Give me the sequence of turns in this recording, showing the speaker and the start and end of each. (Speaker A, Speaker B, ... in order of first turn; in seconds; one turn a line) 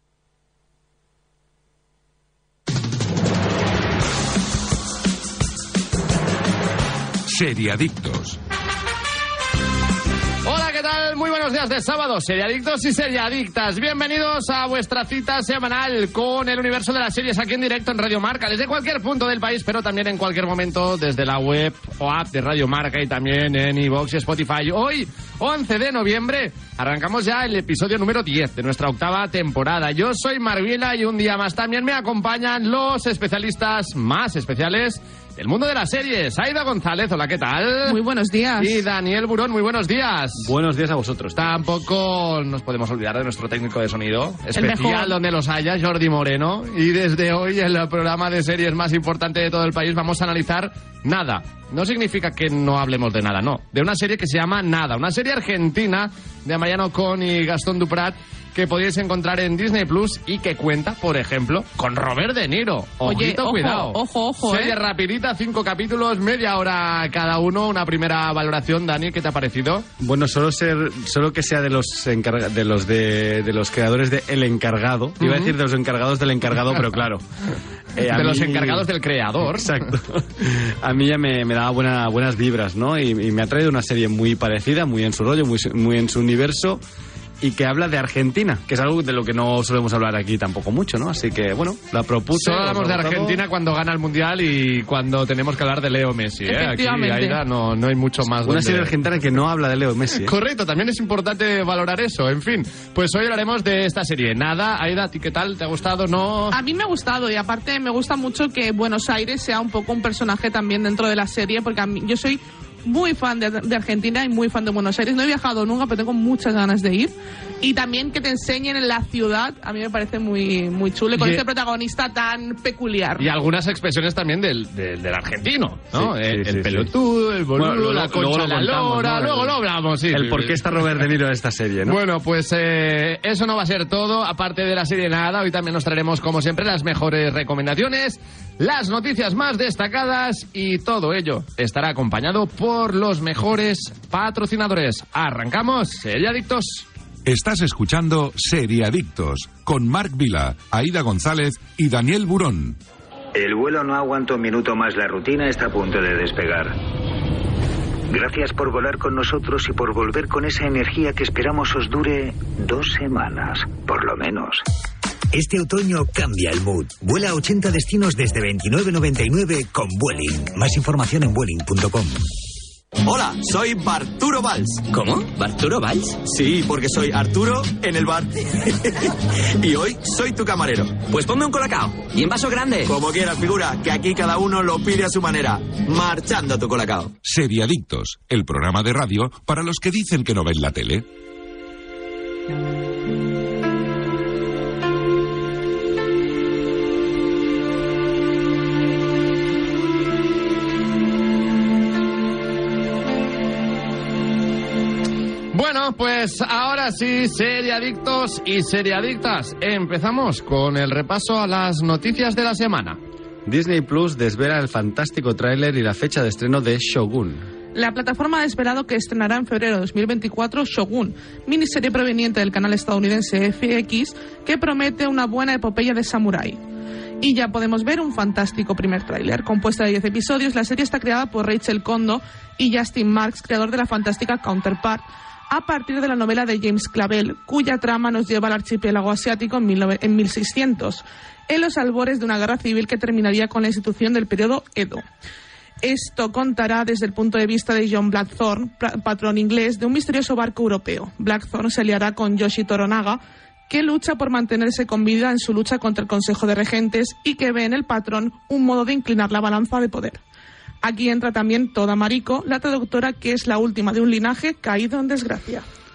Speaker A: 7.2-8.4
Speaker B: 10.4-38.0
Speaker C: 37.9-38.8
Speaker B: 38.6-40.5
Speaker D: 40.4-41.5
Speaker B: 41.4-69.9
Speaker C: 44.5-45.1
Speaker C: 63.0-64.8
Speaker D: 70.0-77.2
Speaker B: 75.2-75.5
Speaker D: 78.0-78.9
Speaker B: 78.1-79.9
Speaker D: 79.4-86.8
Speaker D: 87.4-93.4
Speaker B: 92.3-98.9
Speaker C: 96.5-97.4
Speaker D: 98.3-100.3
Speaker B: 100.2-106.5
Speaker C: 106.5-123.3
Speaker B: 121.1-121.4
Speaker B: 123.2-131.0
Speaker D: 125.9-126.9
Speaker D: 127.5-129.6
Speaker D: 130.1-132.0
Speaker B: 131.9-146.9
Speaker A: 147.3-152.8
Speaker E: 153.3-156.8
Speaker E: 158.1-164.7
Speaker F: 165.3-172.2
Speaker G: 173.1-174.8
Speaker H: 174.9-176.2
Speaker G: 176.2-181.1
Speaker H: 181.0-182.9
Speaker G: 182.9-187.1
Speaker A: 187.2-191.1
Speaker B: 205.5-213.0
Speaker D: 213.4-217.4
Speaker C: 217.8-226.6
Speaker C: 227.2-245.0
Speaker C: 245.8-260.2
Speaker C: 260.8-265.6